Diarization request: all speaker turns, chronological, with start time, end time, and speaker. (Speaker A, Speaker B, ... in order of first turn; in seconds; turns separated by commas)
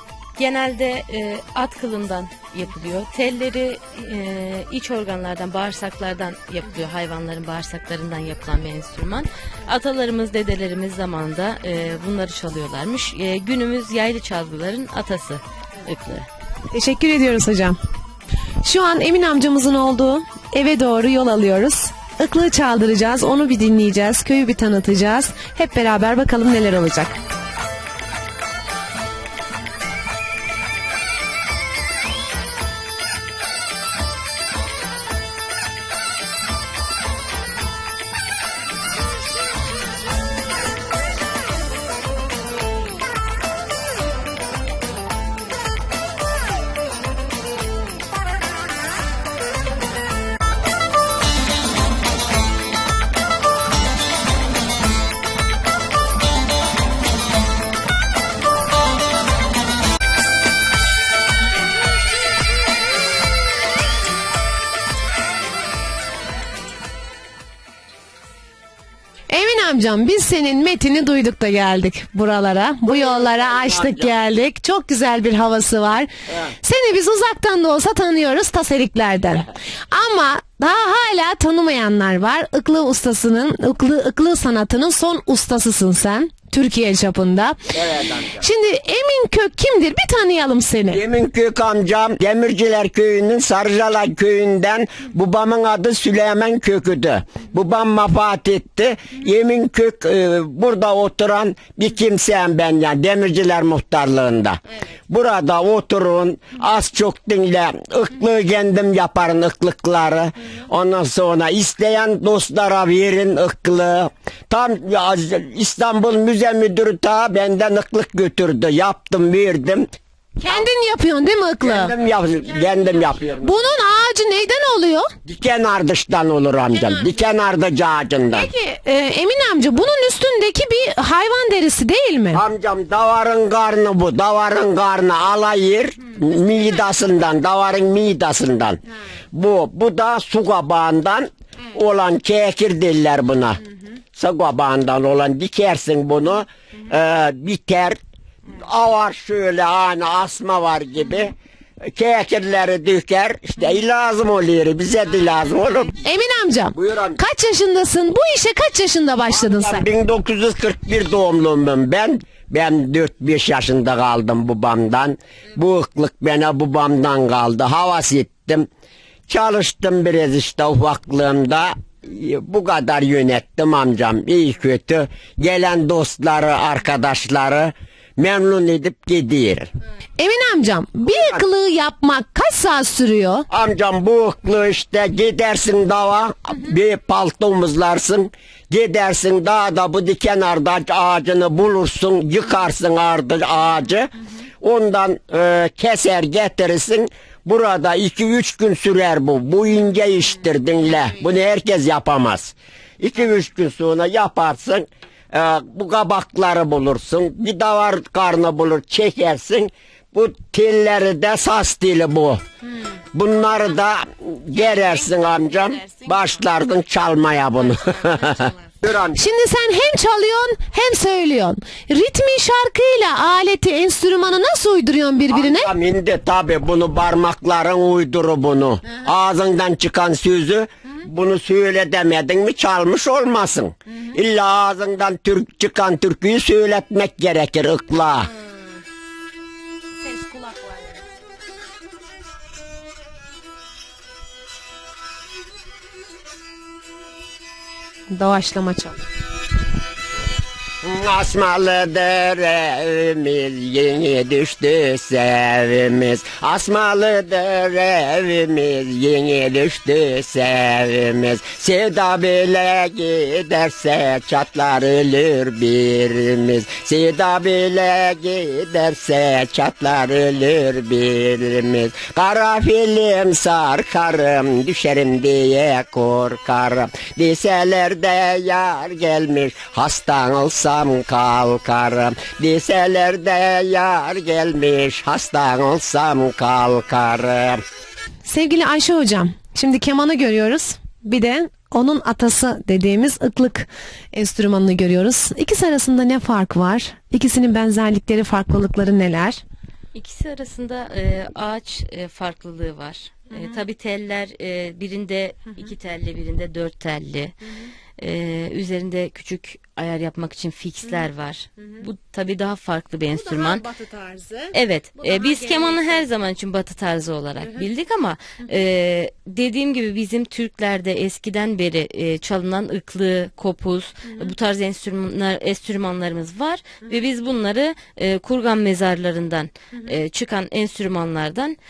Speaker A: 0.3-16.3, Speaker B: 16.7-17.8, Speaker B: 18.6-27.2, Speaker B: 69.3-87.7, Speaker C: 72.9-74.1, Speaker C: 87.7-88.5, Speaker B: 88.4-91.0, Speaker C: 90.9-119.9, Speaker B: 120.4-121.9, Speaker C: 121.6-123.5, Speaker B: 123.4-125.1, Speaker C: 125.2-128.5, Speaker B: 126.7-127.2, Speaker B: 128.3-132.4, Speaker C: 132.3-138.8, Speaker C: 139.3-143.6, Speaker C: 144.1-148.0, Speaker C: 148.5-151.3, Speaker C: 151.9-156.0, Speaker B: 156.0-159.8, Speaker C: 156.7-157.2, Speaker C: 159.3-168.7, Speaker C: 169.3-179.7, Speaker B: 180.2-183.5, Speaker C: 181.1-181.4, Speaker C: 183.5-212.4, Speaker C: 213.1-219.2, Speaker B: 218.0-218.5, Speaker B: 219.1-225.7, Speaker C: 225.3-238.3, Speaker B: 238.3-238.8, Speaker B: 240.0-241.0, Speaker B: 248.1-249.0, Speaker C: 250.8-287.6, Speaker B: 288.2-299.4, Speaker A: 299.9-307.3, Speaker B: 303.3-303.6, Speaker A: 308.0-313.6, Speaker B: 311.6-311.9, Speaker B: 313.1-316.1, Speaker A: 314.5-331.6, Speaker B: 317.4-317.7, Speaker B: 324.1-324.4, Speaker B: 326.8-327.1, Speaker B: 329.7-330.0